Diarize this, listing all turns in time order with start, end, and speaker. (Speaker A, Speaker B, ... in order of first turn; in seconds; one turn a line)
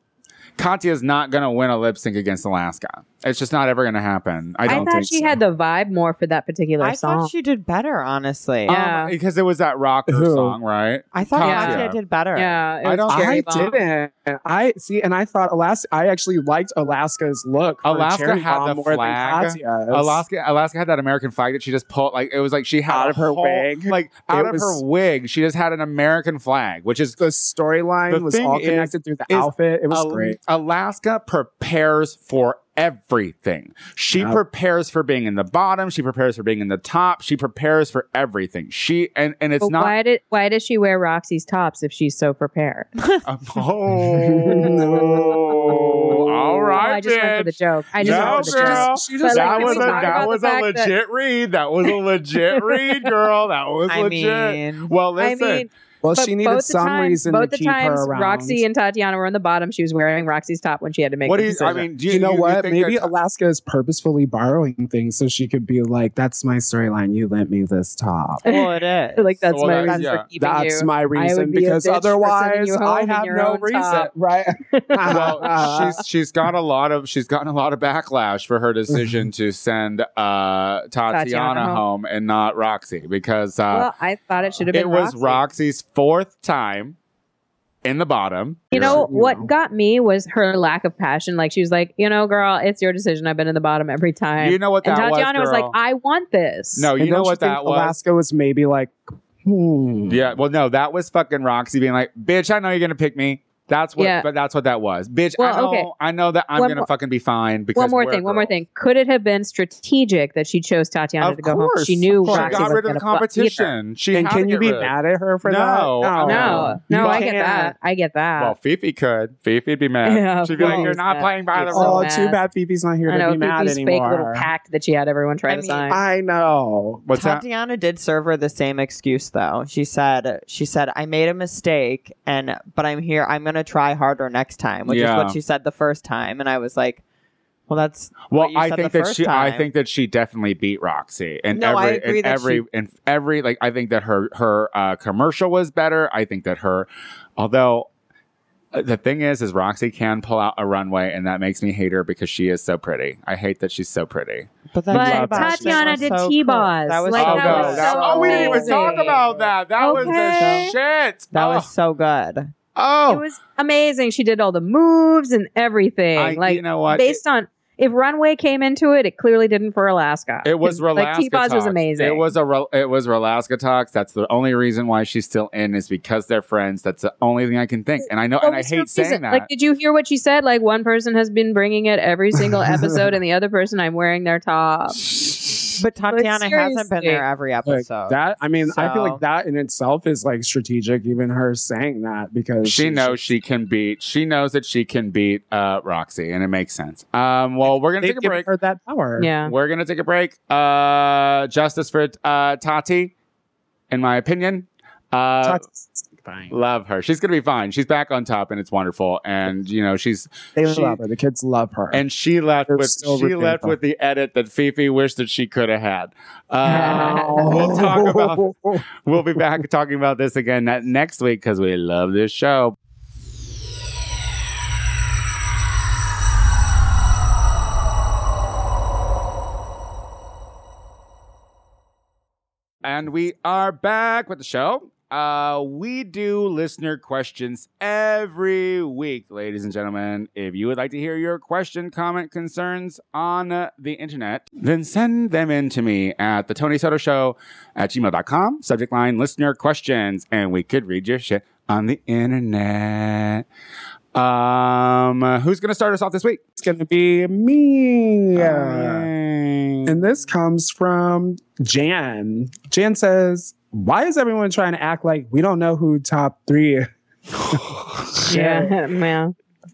Speaker A: 0.6-5.3
Speaker B: 4.6-5.4
Speaker C: 4.7-7.3
Speaker D: 6.8-8.7
Speaker C: 8.7-9.1
Speaker A: 8.7-12.0
Speaker B: 10.1-10.6
Speaker D: 11.1-12.6
Speaker C: 11.4-13.8
Speaker A: 12.8-13.7
Speaker B: 13.1-20.2
Speaker A: 17.8-27.2
Speaker B: 22.9-24.8
Speaker B: 27.2-30.4
Speaker A: 28.1-39.9
Speaker B: 34.1-34.4
Speaker C: 39.6-42.9
Speaker A: 43.2-55.7
Speaker B: 44.0-46.8
Speaker C: 46.8-50.9
Speaker B: 48.0-50.3
Speaker C: 52.5-53.1
Speaker D: 53.9-54.9
Speaker C: 55.2-61.9
Speaker B: 56.0-58.6
Speaker A: 61.2-63.1
Speaker B: 62.1-68.4
Speaker D: 68.4-70.1
Speaker C: 68.4-74.1
Speaker A: 69.5-70.2
Speaker B: 70.4-76.0
Speaker C: 74.7-75.9
Speaker A: 75.1-83.9
Speaker B: 78.9-79.2
Speaker C: 81.1-81.8
Speaker C: 83.7-85.4
Speaker A: 84.7-87.0
Speaker A: 87.8-89.0
Speaker B: 88.7-89.5
Speaker C: 88.7-96.9
Speaker A: 94.4-95.7
Speaker A: 96.8-98.0
Speaker B: 97.0-100.3
Speaker A: 100.1-108.5
Speaker C: 104.0-104.2
Speaker C: 105.4-105.9
Speaker C: 106.5-106.9
Speaker C: 107.7-113.7
Speaker A: 111.2-114.9
Speaker B: 112.2-112.8
Speaker B: 114.1-117.3
Speaker A: 115.4-116.8
Speaker C: 116.2-118.5
Speaker D: 116.9-117.7
Speaker A: 118.4-122.1
Speaker C: 120.0-122.4
Speaker B: 120.6-120.9
Speaker B: 121.7-124.5
Speaker C: 123.1-126.0
Speaker D: 125.5-126.0
Speaker B: 125.9-127.0
Speaker A: 127.0-127.4
Speaker D: 127.1-137.0
Speaker A: 134.9-135.4
Speaker D: 137.7-139.7
Speaker A: 138.3-146.9
Speaker D: 141.5-142.6
Speaker A: 147.4-147.9
Speaker A: 148.7-154.5
Speaker D: 154.7-160.7
Speaker B: 154.9-156.2
Speaker C: 154.9-159.2
Speaker A: 157.1-161.7
Speaker B: 157.5-158.4
Speaker C: 159.8-160.7
Speaker D: 161.3-162.5
Speaker A: 162.8-163.2
Speaker C: 163.1-172.3
Speaker A: 166.2-167.2
Speaker A: 170.4-179.5
Speaker C: 178.4-185.0
Speaker B: 182.4-182.9
Speaker A: 185.1-185.5
Speaker D: 185.8-189.2
Speaker C: 186.1-187.2
Speaker B: 187.6-193.2
Speaker A: 192.6-198.5
Speaker B: 197.7-199.3
Speaker C: 199.2-199.5
Speaker A: 199.4-203.1
Speaker A: 203.9-205.6
Speaker B: 205.4-206.5
Speaker A: 206.5-211.0
Speaker B: 210.6-212.0
Speaker A: 211.9-222.8
Speaker B: 212.7-213.8
Speaker C: 216.6-217.6
Speaker B: 216.7-218.8
Speaker A: 232.8-253.4
Speaker A: 254.1-256.4
Speaker B: 256.6-259.1
Speaker A: 258.3-260.0
Speaker B: 259.9-266.9
Speaker A: 267.4-268.2
Speaker B: 268.2-268.7
Speaker C: 268.3-269.3